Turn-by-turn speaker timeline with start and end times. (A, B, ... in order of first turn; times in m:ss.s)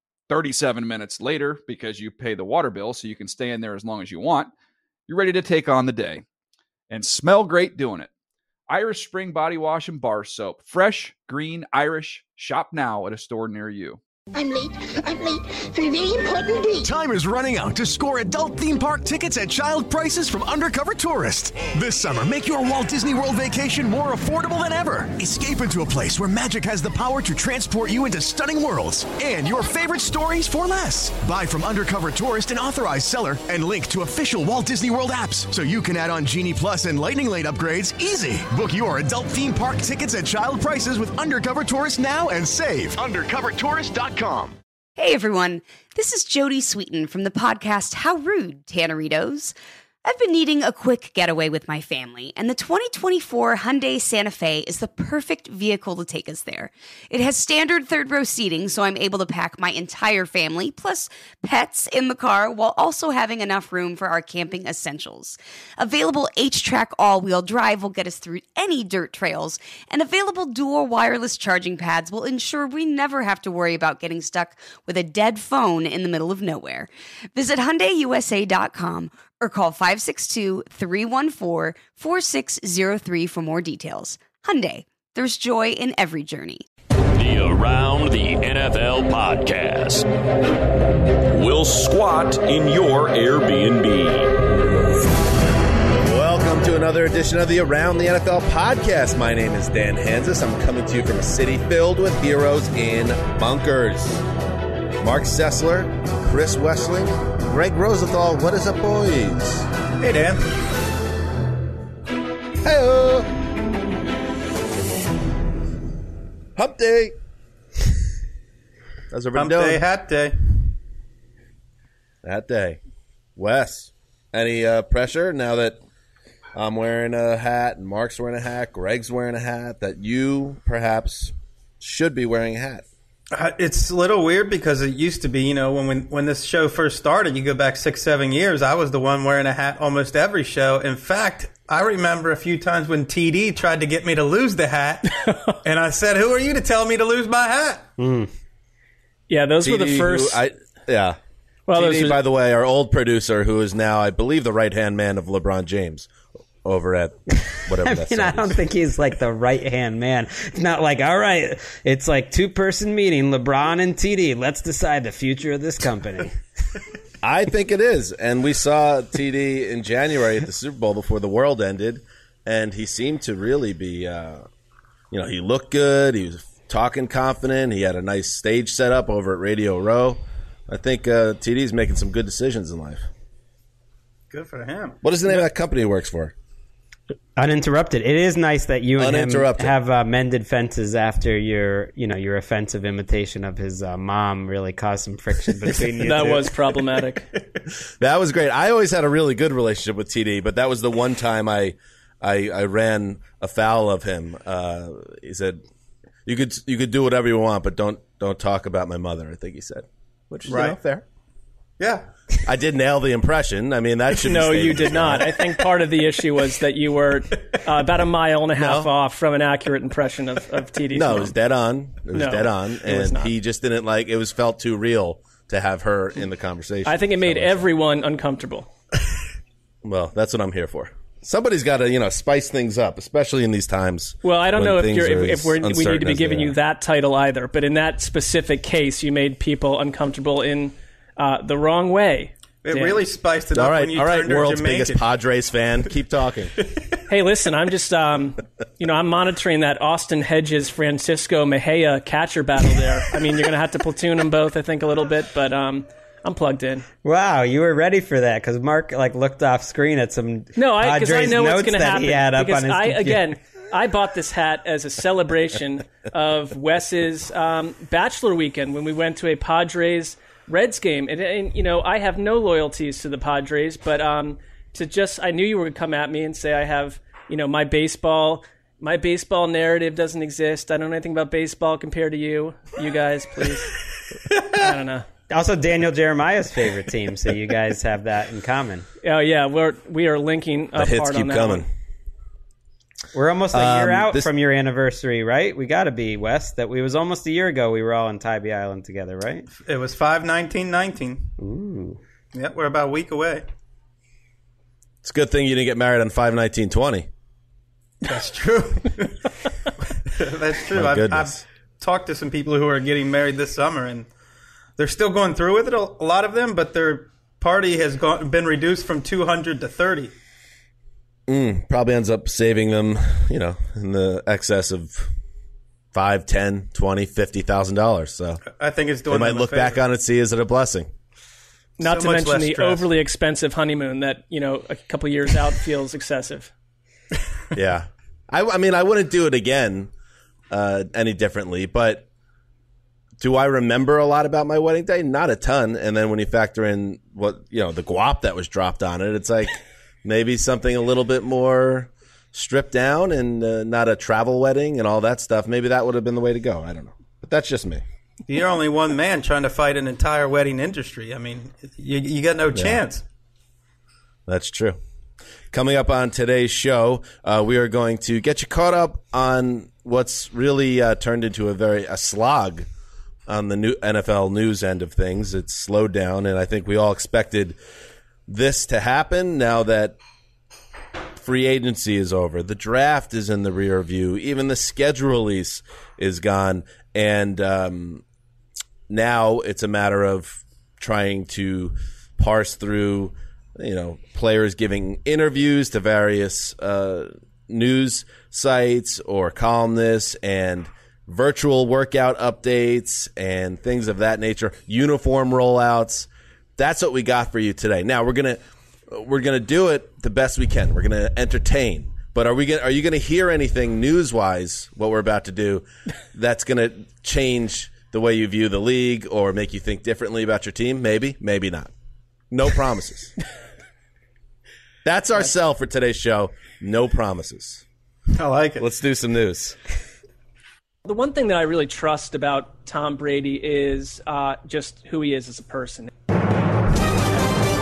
0:00.3-0:04.5 A
0:05.1-0:06.2 A
0:06.9-0:08.1 A
0:08.7-0:14.0 A
0:14.3-0:16.9 B
0:16.8-0:44.5 C
0:43.1-0:44.5 D
0:45.0-1:26.6 E
1:27.2-1:30.1 D
1:31.3-1:34.3 D
1:36.0-1:44.2 F
1:45.0-1:49.7 F
1:50.0-1:50.5 G
1:52.6-1:53.3 F
1:56.6-1:57.2 F
1:59.1-1:59.8 F
1:59.3-2:00.4 G
2:02.2-2:02.8 F
2:03.4-2:05.8 F
2:06.6-2:12.8 F
2:13.3-2:25.1 G
2:25.1-2:25.6 H
2:25.6-2:27.9 G
2:28.0-2:28.3 I
2:29.3-2:30.4 H
2:29.6-2:31.2 F
2:31.7-2:32.2 H
2:31.7-2:36.1 F
2:36.6-2:38.6 F
2:37.7-2:46.4 I
2:47.2-2:54.4 F
2:55.1-3:03.1 F
3:04.3-3:05.4 G
3:05.0-3:06.3 F
3:07.4-3:16.5 I
3:09.0-3:09.7 F
3:16.0-3:17.3 H
3:18.0-3:25.6 F
3:26.3-3:31.0 F
3:30.5-3:30.8 G
3:31.8-3:32.1 G
3:32.4-3:35.3 F
3:34.2-3:41.3 H
3:38.6-3:38.9 F
3:40.9-3:47.7 F
3:42.1-3:43.2 H
3:46.9-3:48.7 H
3:49.8-3:56.6 F
3:54.2-4:03.0 H
4:02.6-4:05.0 G
4:03.5-4:06.6 F
4:07.1-4:16.9 H
4:17.0-4:23.3 I
4:20.6-4:43.7 H
4:44.5-4:45.0 H
4:45.3-4:48.9 I
4:49.0-4:51.6 H
4:50.8-4:51.7 F
4:53.1-4:59.5 I
4:53.5-4:54.3 F
4:59.5-5:01.3 G
5:01.4-5:02.0 I
5:02.3-5:03.4 G
5:05.0-5:07.1 F
5:08.0-5:09.3 G
5:10.1-5:14.1 G
5:10.7-5:11.4 F
5:14.8-5:20.1 G
5:21.3-5:25.1 F
5:25.9-5:28.4 F
5:28.4-5:29.8 G
5:29.1-5:30.9 F
5:31.8-5:36.5 H
5:31.8-5:32.9 G
5:37.5-5:39.9 F
5:40.5-5:42.1 F
5:43.2-5:57.8 F
5:58.3-6:03.0 G
6:02.5-6:02.8 F
6:04.3-6:04.8 F
6:05.5-6:12.7 F
6:13.3-6:17.6 F
6:18.3-6:20.0 F
6:21.2-6:28.0 F
6:28.9-7:01.7 F
7:02.3-7:03.1 F
7:04.8-7:07.6 F
7:08.1-7:08.7 G
7:08.6-7:09.6 F
7:10.8-7:15.9 H